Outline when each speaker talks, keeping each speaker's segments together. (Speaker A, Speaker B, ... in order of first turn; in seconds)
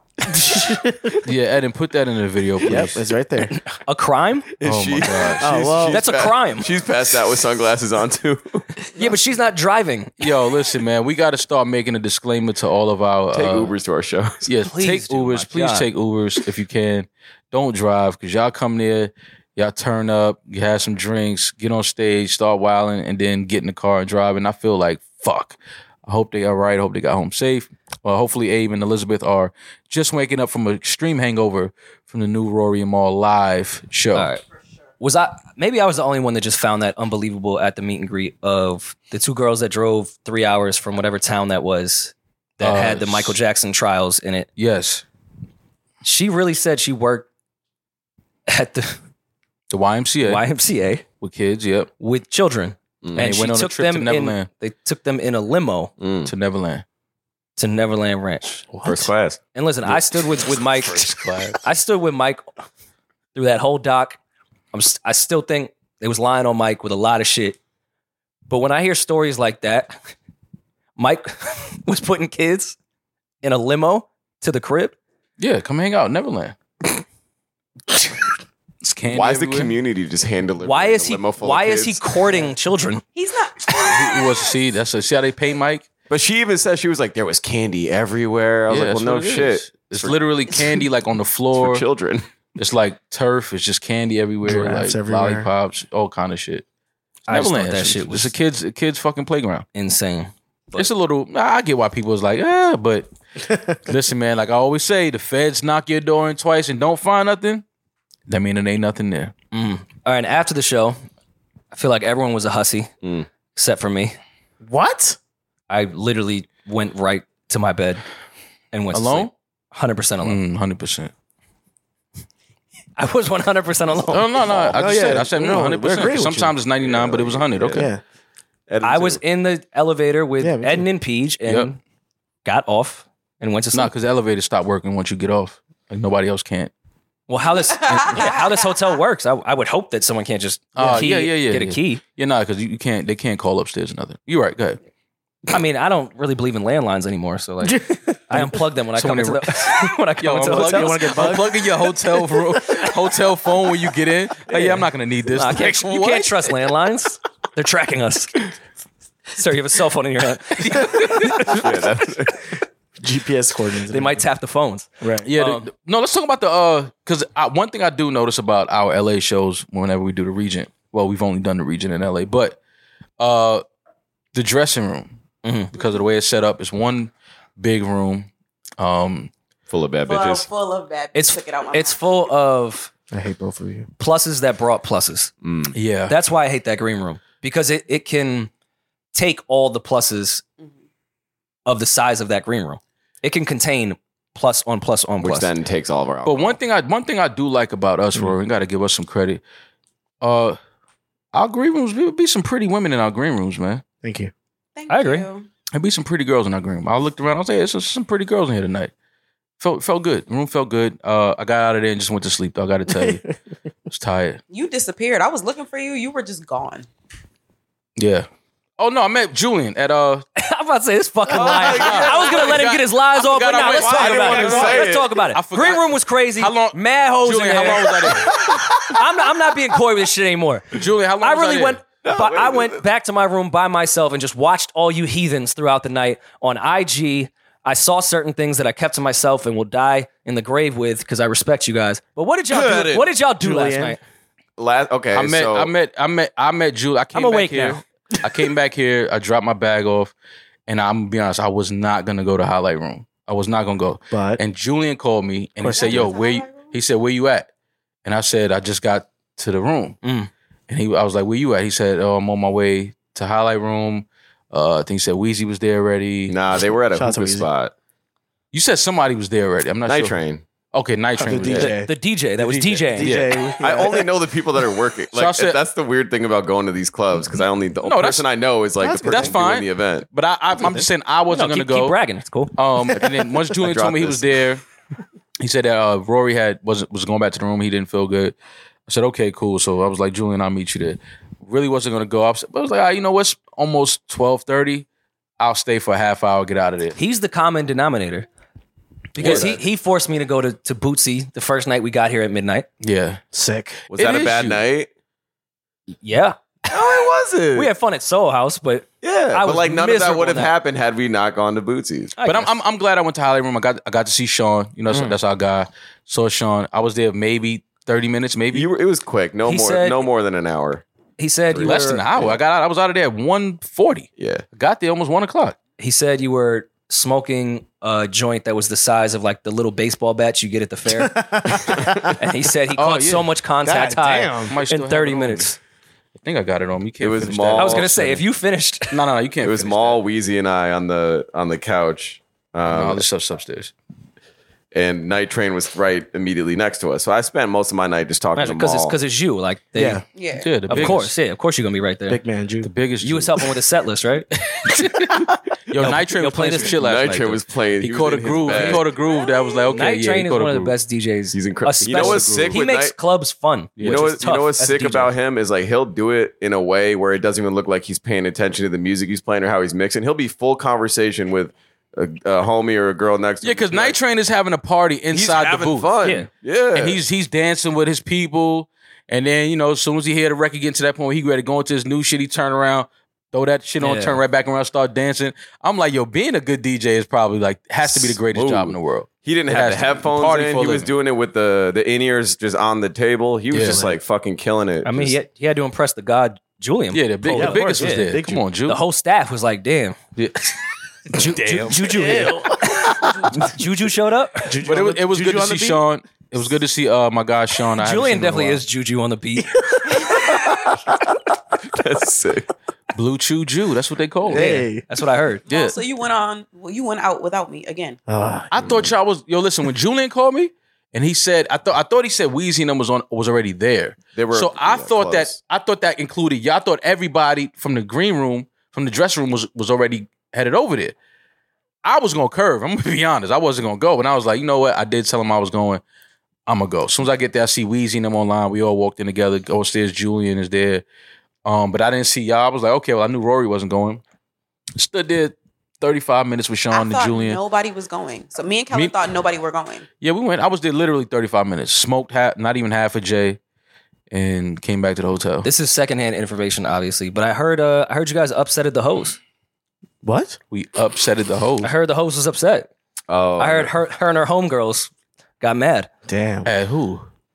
Speaker A: 0.3-1.2, 2.6-3.6, 5.4-6.0, 94.5-95.5, 114.6-115.2, 124.7-126.6, 127.7-128.0, 130.4-130.9, 140.8-141.1, 147.6-148.4, 150.4-152.0, 163.0-164.2, 165.0-165.3, 183.1-183.9, 204.0-204.3, 212.9-213.2, 243.4-244.0, 254.1-254.4, 255.6-256.1, 266.9-267.5, 271.2-271.9, 272.9-274.1, 278.8-279.4, 280.6-280.9, 303.3-303.8, 330.9-332.2, 333.6-334.6, 349.8-350.0, 352.1-352.7, 393.6-394.0, 397.3-398.4, 401.8-403.2, 404.4-405.9, 414.2-414.9, 418.1-418.9, 460.0-460.4, 466.1-466.5
Speaker B: 1.2-3.0, 4.6-5.6, 10.2-13.7, 14.4-34.3, 42.6-43.4, 44.6-45.0, 49.7-50.4, 51.2-51.9, 53.1-54.5, 56.2-56.8, 58.7-59.0, 59.9-61.6, 75.4-76.6, 78.8-79.8, 83.8-85.9, 88.7-91.8, 92.6-96.7, 97.3-99.7, 100.8-103.1, 103.8-107.6, 108.3-109.3, 118.9-119.3, 120.2-121.1, 124.1-127.9, 133.7-136.7, 137.9-138.3, 140.8-144.8, 148.3-156.5, 160.6-161.5, 165.2-172.6, 173.2-173.6, 174.3-175.2, 175.7-179.3, 185.7-186.2, 196.2-199.4, 200.2-200.6, 201.3-203.8, 205.7-208.9, 209.6-213.3, 213.9-214.4, 218.0-218.3, 218.8-220.3, 221.4-228.4, 230.7-231.8, 245.1-250.1, 250.7-257.5, 258.1-260.0, 260.7-266.4, 268.5-270.2, 270.7-271.8, 272.4-273.4, 275.1-275.6, 277.8-278.2, 279.0-282.0, 282.5-284.6, 285.4-288.4, 288.9-294.9, 295.4-297.0, 299.2-299.5, 302.8-303.2, 303.9-304.6, 312.2-318.7, 321.6-325.6, 332.8-333.3, 334.5-335.5, 336.2-338.2, 338.9-340.0, 342.6-343.7, 350.4-351.1, 352.6-353.4, 354.4-360.7, 361.8-362.6, 363.8-364.2, 373.4-375.9, 376.7-390.9, 393.5-393.9, 396.9-398.8, 400.2-402.4, 404.6-408.6, 412.9-414.6, 415.5-415.8, 418.5-431.0, 431.8-435.8, 436.5-440.8, 441.4-444.0, 444.8-447.4, 448.7-449.0, 450.0-453.4, 454.1-455.5, 460.5-461.7, 466.4-467.1
Speaker C: 3.5-4.5, 5.9-6.7, 9.0-10.2, 14.7-15.9, 34.1-34.4, 35.0-44.5, 46.0-47.3, 48.5-49.0, 50.2-51.0, 52.0-55.9, 57.6-58.7, 59.5-62.4, 63.3-64.2, 64.7-67.6, 68.5-70.0, 71.0-72.8, 73.4-75.0, 80.6-83.0, 97.3-98.3, 99.8-100.9, 109.5-111.0, 111.7-112.9, 113.5-114.2, 115.7-118.0, 118.7-120.4, 123.0-124.5, 128.8-131.8, 132.4-133.9, 137.3-142.0, 145.5-151.4, 154.5-158.4, 159.3-161.6, 163.9-165.7, 175.4-175.7, 181.1-182.9, 184.0-185.3, 186.1-188.5, 189.1-190.4, 191.7-195.5, 204.9-205.3, 220.4-244.0, 247.1-247.8, 260.0-260.3, 271.5-273.1, 281.3-282.6, 297.0-298.3, 299.1-302.7, 306.0-307.0, 307.5-310.5, 312.2-312.5, 319.4-320.1, 321.2-322.0, 325.8-335.6, 337.6-339.0, 348.4-350.0, 350.7-352.2, 353.0-354.3, 355.8-356.8, 358.5-358.8, 359.7-365.1, 376.0-376.3, 383.8-384.2, 394.8-398.1, 398.7-400.0, 401.2-404.6, 407.8-410.2, 414.3-415.4, 455.4-459.2, 461.6-462.7, 463.4-465.9
Speaker D: 4.5-8.7, 13.3-14.5, 56.0-56.3, 58.8-59.4, 79.1-82.3, 86.1-90.2, 91.6-92.3, 126.8-127.9, 128.7-129.2, 161.5-162.6, 179.7-180.5, 185.4-185.8, 195.2-196.6, 221.3-222.6, 223.8-225.1, 228.3-228.8, 232.0-232.8, 242.5-243.1, 244.6-245.7, 266.3-267.7, 269.9-270.4, 273.6-280.1, 283.6-284.2, 299.2-299.6, 303.9-304.9, 306.7-307.7, 309.0-312.2, 318.5-320.9, 321.5-322.4, 324.2-324.4, 337.0-337.9, 339.4-343.0, 344.7-349.0, 356.8-358.9, 361.3-362.9, 363.8-374.0, 375.1-377.0, 387.8-395.2, 411.7-412.5, 424.1-425.4, 463.1-463.7
Speaker E: 83.2-84.3, 137.8-138.6, 180.1-182.0, 204.8-205.5, 214.5-216.9, 255.7-256.8, 350.2-350.5, 415.5-418.0, 446.7-449.9